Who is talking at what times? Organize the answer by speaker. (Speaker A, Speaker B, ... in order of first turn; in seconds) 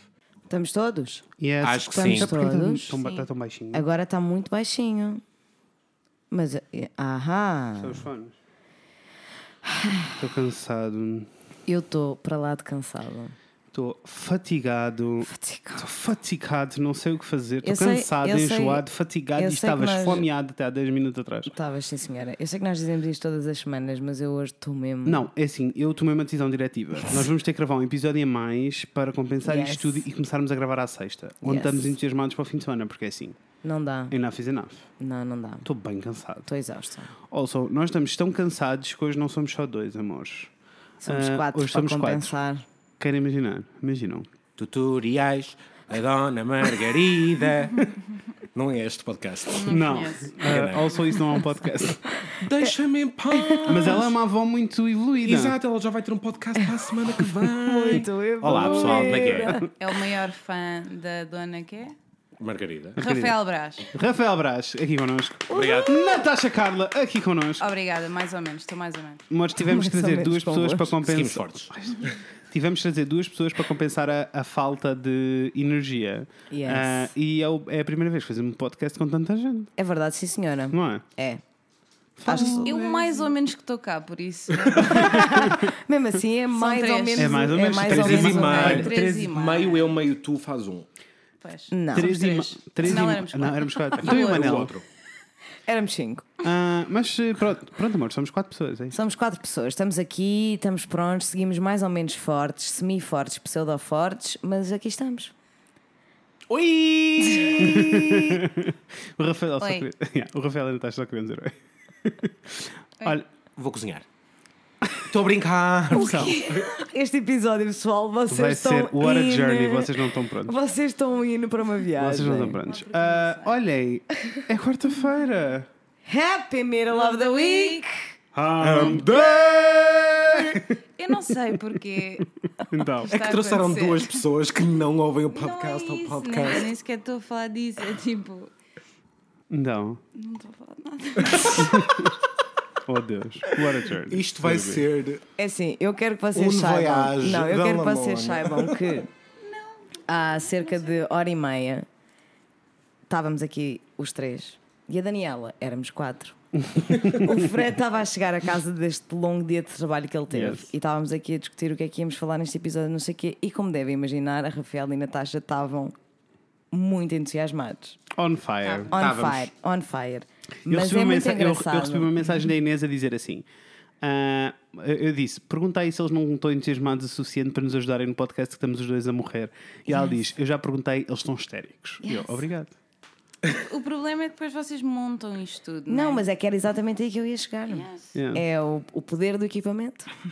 Speaker A: 0.5-1.2, 1.8-3.0, 3.7-5.2, 6.3-8.1, 9.6-10.2, 11.7-13.3, 15.2-15.9, 17.6-18.8, 19.4-20.3, 21.5-25.3, 29.4-30.0, 31.4-31.9, 33.6-34.1, 35.0-35.7, 36.5-37.1, 41.0-42.6, 52.4-52.7, 53.3-54.0, 57.4-59.7, 65.5-66.2, 69.5-71.0, 76.5-77.1, 79.8-81.4, 82.2-82.7, 84.8-88.9, 91.7-92.1, 95.7-96.3, 98.9-105.3, 116.2-122.6, 126.0-128.0, 145.4-149.1, 150.1-151.9, 153.1-156.4, 157.0-165.9, 166.7-168.0, 168.9-172.1, 182.0-182.3, 185.9-190.1
Speaker B: 1.4-3.8, 7.8-8.3, 10.2-11.3, 13.7-21.5, 25.0-33.4, 34.1-34.9, 35.6-36.5, 37.2-40.5, 41.0-42.3, 43.0-44.3, 49.6-52.0, 53.7-55.5, 58.4-59.7, 63.0-63.4, 63.9-67.6, 69.3-79.7, 80.7-81.0, 82.2-82.8, 84.8-85.7, 87.1-88.9, 91.9-94.7, 96.4-99.0, 107.5-113.2, 115.9-116.4, 118.3-120.5, 122.0-125.7, 128.3-129.1, 130.4-130.7, 132.2-133.1, 139.5-140.0, 141.6-142.1, 142.8-144.8, 156.6-157.5, 160.3-160.7, 168.1-168.9, 170.7-173.4, 174.0-182.7, 188.1-188.4
Speaker C: 1.6-2.3, 44.6-47.9, 48.5-51.1, 52.4-54.1, 55.2-59.7, 62.4-63.0, 65.5-66.1, 71.0-72.1, 87.7-90.9, 94.0-94.8, 106.5-108.4, 113.5-114.0, 115.1-116.7, 128.6-130.6, 133.1-136.7, 141.2-142.1, 143.6-145.2, 146.3-149.0, 168.9-169.5
Speaker D: 3.0-3.3, 49.5-50.4, 59.8-61.9, 63.0-63.9, 67.6-69.2, 82.6-85.3, 86.5-87.7, 88.2-90.0, 91.4-94.7, 109.6-109.9, 116.0-116.6, 122.6-123.6, 126.9-127.8, 131.0-132.3, 132.9-134.2, 135.3-138.5, 140.1-141.7, 149.4-150.7, 168.6-168.9, 183.5-186.2, 187.7-188.1